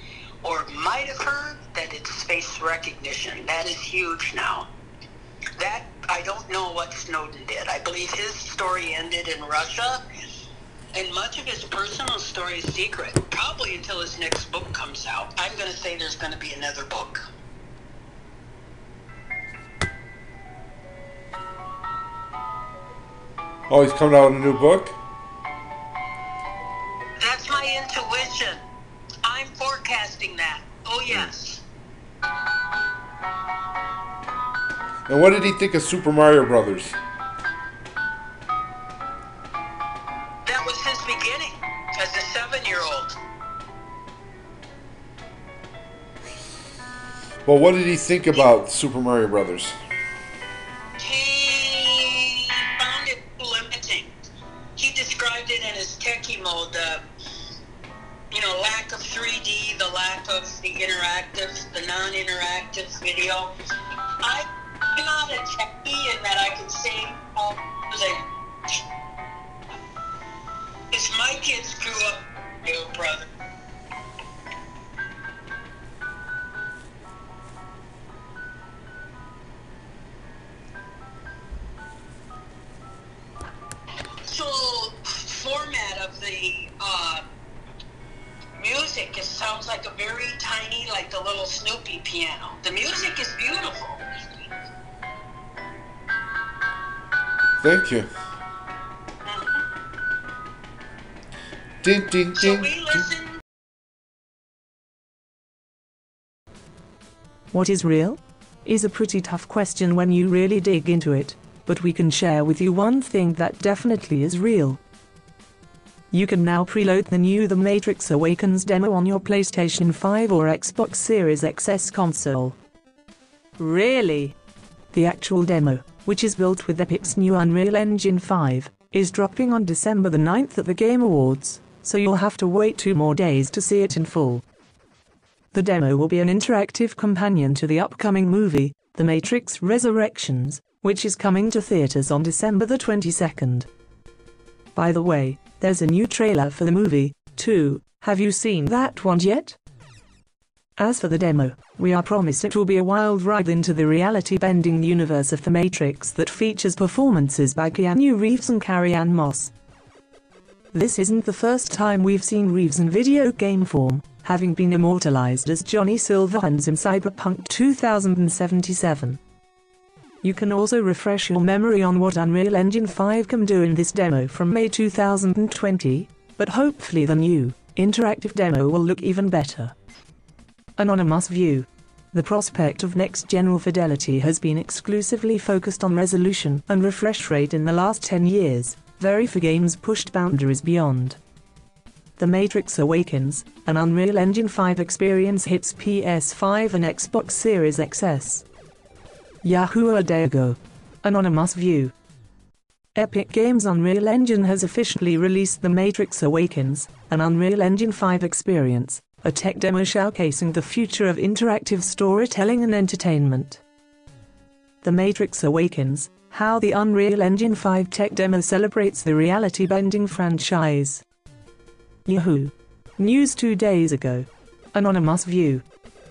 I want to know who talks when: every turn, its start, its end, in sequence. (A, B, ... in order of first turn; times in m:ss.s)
0:00.4-0:04.7 A
0:05.6-0:10.0 A
0:10.9-0:17.2 A
0:23.7-0:25.0 B
0:27.2-0:28.6 A
0:29.2-0:31.6 A
0:35.1-0:37.0 B
0:40.4-0:43.2 A
0:47.4-0:49.8 B
0:51.0-0:54.1 A
0:54.8-0:57.0 A
0:58.3-1:03.5 A
1:04.2-1:08.3 A
1:10.9-1:13.3 A
1:24.3-1:27.2 A
1:28.6-1:34.0 A
1:37.6-1:38.1 B
1:39.3-1:39.6 A
1:41.8-1:43.1 B
1:42.4-1:43.4 A
1:47.5-1:54.8 C
1:56.1-2:02.6 C
2:03.6-2:04.3 C
2:04.9-2:14.4 C
2:15.5-2:23.7 C
2:24.7-2:29.6 C
2:30.8-2:39.5 C
2:40.7-2:49.2 C
2:50.2-2:59.7 C
3:00.8-3:11.2 C
3:12.2-3:18.4 C
3:19.4-3:21.9 C
3:23.0-3:33.6 C
3:34.8-3:41.0 C
3:42.0-3:45.6 C